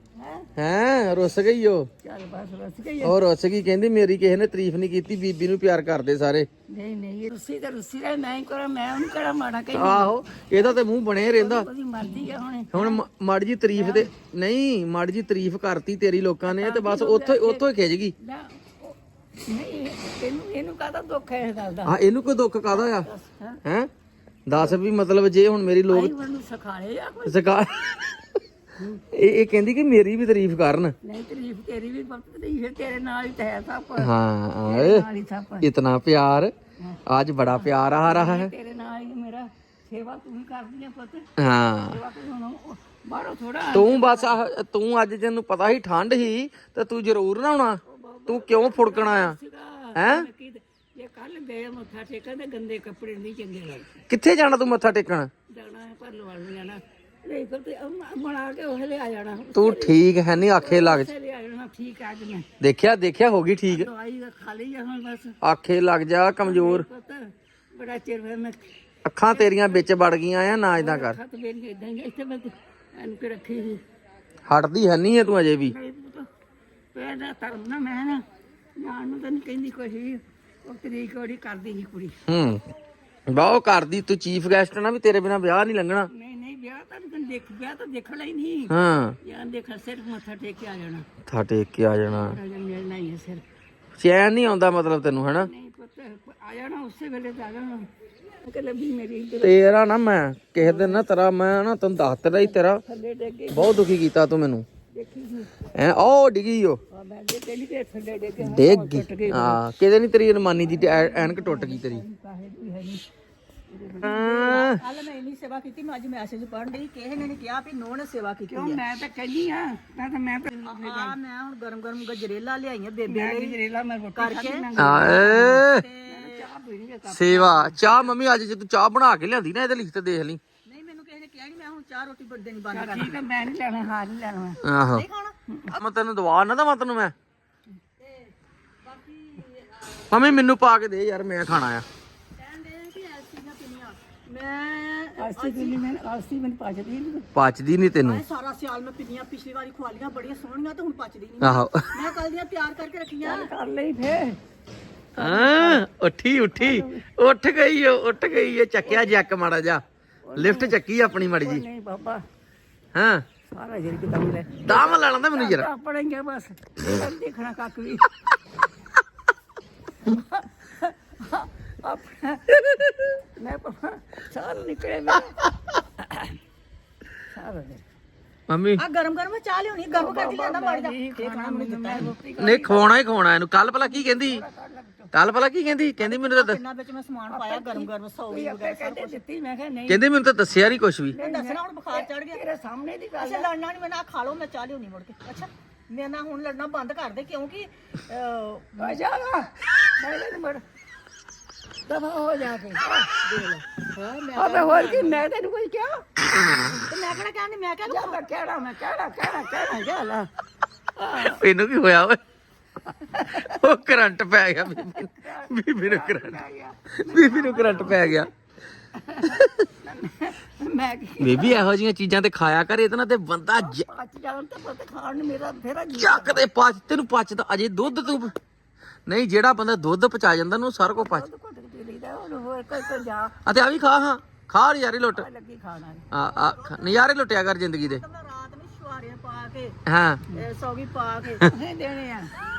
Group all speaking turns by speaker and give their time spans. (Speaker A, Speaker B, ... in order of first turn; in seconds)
Speaker A: 0.1-0.5, 2.0-3.2, 6.7-13.0, 13.7-14.1, 16.4-17.7, 18.2-22.0, 22.7-23.6, 25.9-27.4, 31.0-34.1, 34.6-35.7, 36.8-41.3, 41.8-44.4, 47.8-54.0, 55.5-62.5, 63.7-65.4, 66.4-68.7, 69.3-69.9, 70.7-73.8, 75.7-76.3, 76.9-78.2, 78.8-82.1, 86.1-91.1, 92.1-93.4, 95.3-97.9, 98.4-99.6, 100.6-101.0, 102.3-103.8, 104.9-105.5, 106.9-109.6, 110.5-113.0, 113.7-114.2, 118.5-121.2, 123.1-127.8, 132.7-134.6, 145.2-147.3, 153.2-154.4, 155.2-155.8, 156.5-157.1, 158.8-159.1, 160.3-160.8, 161.4-162.2, 163.5-168.1, 170.0-172.5, 173.3-175.4, 176.0-176.4, 177.3-177.8, 179.9-182.9, 183.8-185.1, 187.3-190.0, 191.1-193.5, 198.7-200.6, 201.9-203.2, 204.3-206.1, 207.9-210.3, 210.9-211.4, 212.8-213.6, 214.7-218.3, 218.9-221.6, 223.6-226.4, 230.9-233.4, 235.1-236.1, 241.4-242.3
Speaker B: 0.6-1.9, 3.0-6.5, 9.7-11.7, 12.7-18.1, 21.9-23.1, 23.6-23.9, 24.5-26.1, 27.2-28.4, 29.1-30.9, 34.0-35.1, 35.6-36.5, 37.0-38.5, 41.4-42.0, 43.7-49.4, 49.9-50.3, 54.1-55.3, 59.5-61.1, 62.6-63.9, 65.4-66.8, 69.0-71.2, 74.5-75.7, 82.3-82.7, 83.3-86.1, 88.7-89.2, 91.2-92.4, 94.0-95.5, 99.4-102.8, 103.5-104.7, 105.7-106.8, 108.4-112.0, 114.0-114.8, 124.8-125.8, 127.1-130.4, 134.6-135.0, 135.7-137.1, 140.1-141.8, 147.3-148.2, 151.4-151.9, 155.2-159.8, 160.3-161.6, 162.9-163.2, 164.6-165.7, 172.6-172.9, 178.5-178.8, 182.4-184.4, 185.1-186.6, 189.9-191.2, 211.2-212.2, 213.4-216.4, 216.9-218.3, 219.2-219.7, 221.2-223.8, 226.0-228.3, 229.1-231.2, 233.4-235.2, 236.1-238.0, 239.8-240.2
Speaker C: 114.1-118.8, 120.6-123.6, 124.2-126.5, 130.7-133.1, 134.9-135.3, 138.0-140.0, 142.4-145.8, 148.0-153.5, 178.8-182.1, 186.0-189.2, 191.2-192.4, 193.2-199.0, 203.2-205.2, 206.7-208.2, 236.2-237.1, 237.8-239.8, 240.3-241.5